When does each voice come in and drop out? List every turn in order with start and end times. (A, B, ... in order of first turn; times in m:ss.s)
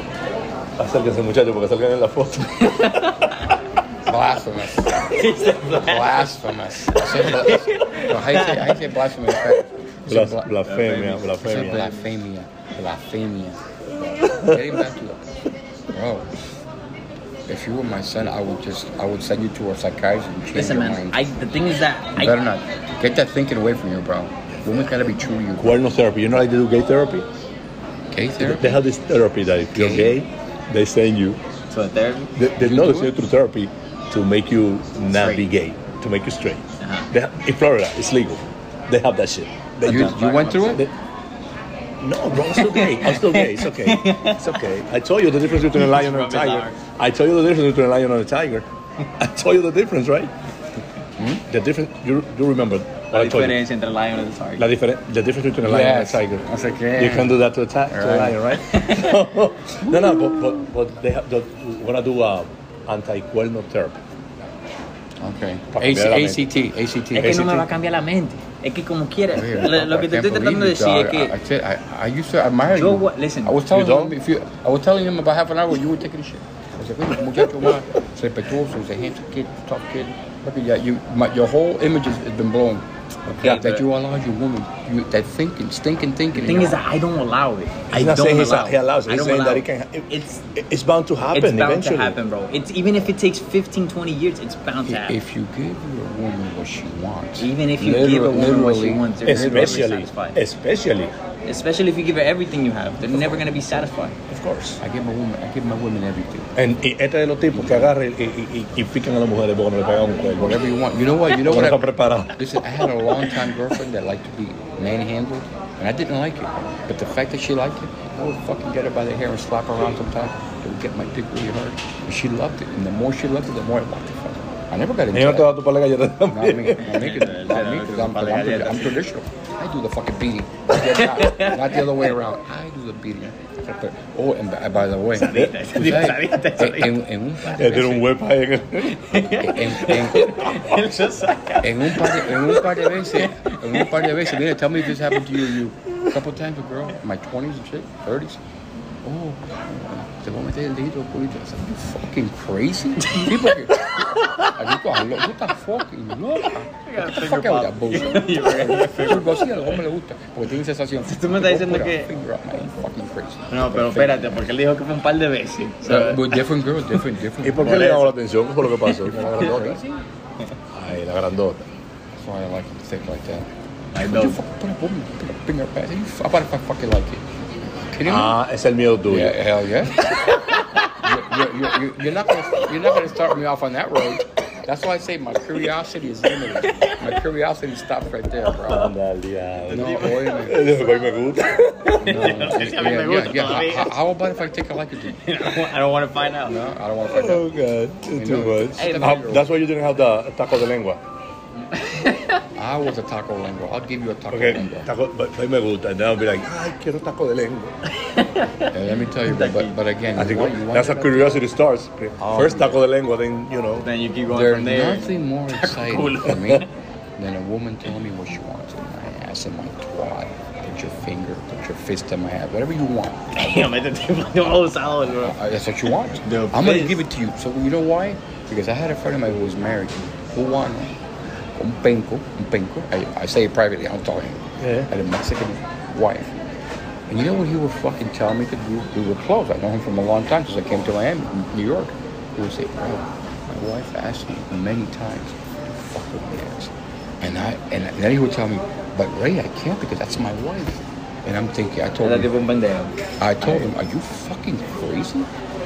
0:00.8-0:03.0 A
0:02.6-0:03.5 B
0:04.0-0:10.5 C
0:05.0-0:06.3 B
0:06.9-0:08.8 B
0:10.1-0:11.8 A
0:10.6-0:12.1 B
0:11.4-0:15.2 C
0:14.1-0:14.6 A
0:15.9-0:16.3 C
0:17.5-0:21.2 C
0:20.5-0:22.4 B
0:22.2-0:25.8 C
0:25.6-0:27.3 A
0:28.1-0:28.8 C
0:28.4-0:31.4 A
0:29.7-0:30.2 C
0:31.7-0:32.3 B
0:32.4-0:40.9 A
0:32.6-0:33.2 C
0:35.1-0:35.4 B
0:36.8-0:37.1 B
0:39.8-0:40.8 C
0:39.8-0:40.8 B
0:42.0-0:48.6 A
0:42.5-0:44.6 B
0:45.7-0:46.8 B
0:49.2-0:50.3 A
0:51.2-0:51.4 C
0:51.5-0:53.6 A
0:53.1-0:54.6 B
0:54.6-1:04.0 A
0:55.6-0:58.4 C
0:58.6-0:59.2 B
0:59.9-1:00.5 C
1:05.2-1:07.6 C
1:05.7-1:06.4 A
1:07.1-1:11.3 B
1:07.2-1:07.6 A
1:09.3-1:26.8 C
1:12.7-1:13.8 B
1:13.7-1:14.1 A
1:23.3-1:23.8 B
1:26.3-1:30.4 B
1:27.9-1:32.2 A
1:31.3-1:35.2 B
1:34.8-1:39.9 C
1:37.4-1:40.4 B
1:39.2-1:41.1 A
1:41.4-1:44.1 B
1:43.0-1:43.9 C
1:44.3-1:44.8 A
1:44.8-1:46.5 C
1:46.6-1:50.6 A
1:47.5-1:47.9 C
1:50.4-2:05.5 C
1:51.4-1:52.4 A
2:05.1-2:06.9 A
2:06.3-2:18.1 C
2:06.8-2:09.0 B
2:10.7-2:12.1 B
2:15.2-2:17.0 B
2:17.6-2:19.2 A
2:18.8-2:25.6 B
2:19.4-2:20.6 C
2:21.6-2:28.4 C
2:29.0-2:44.4 C
2:33.0-2:34.5 B
2:36.8-2:39.8 B
2:41.0-2:42.1 B
2:43.5-2:46.4 B
2:45.8-2:47.9 C
2:47.4-2:49.8 A
2:47.6-2:49.5 B
2:49.1-2:50.0 C
2:50.7-2:51.6 A
2:52.2-2:53.5 C
2:53.9-2:54.4 B
2:54.0-2:58.4 C
2:58.0-2:59.4 A
2:59.1-3:00.1 C
3:00.0-3:00.8 B
3:00.9-3:08.9 C
3:06.6-3:07.0 B
3:08.7-3:12.4 A
3:09.7-3:10.7 C
3:09.7-3:10.4 B
3:11.9-3:13.9 B
3:12.0-3:15.2 C
3:15.1-3:16.6 B
3:16.4-3:17.5 C
3:17.1-3:21.0 A
3:18.1-3:19.5 C
3:18.8-3:19.2 B
3:21.7-3:22.4 B
3:22.5-3:24.9 C
3:24.3-3:27.8 A
3:28.0-3:29.8 B
3:28.7-3:31.4 C
3:30.2-3:33.8 A
3:32.2-3:32.8 C
3:33.8-3:36.7 B
3:34.3-3:43.3 C
3:36.3-3:36.6 A
3:43.3-3:45.4 B
3:45.2-3:51.0 C
3:46.1-3:47.0 B
3:51.5-3:56.3 C
3:54.6-3:54.9 A
3:57.1-4:12.3 C
4:12.0-4:13.7 B
4:13.2-4:15.3 C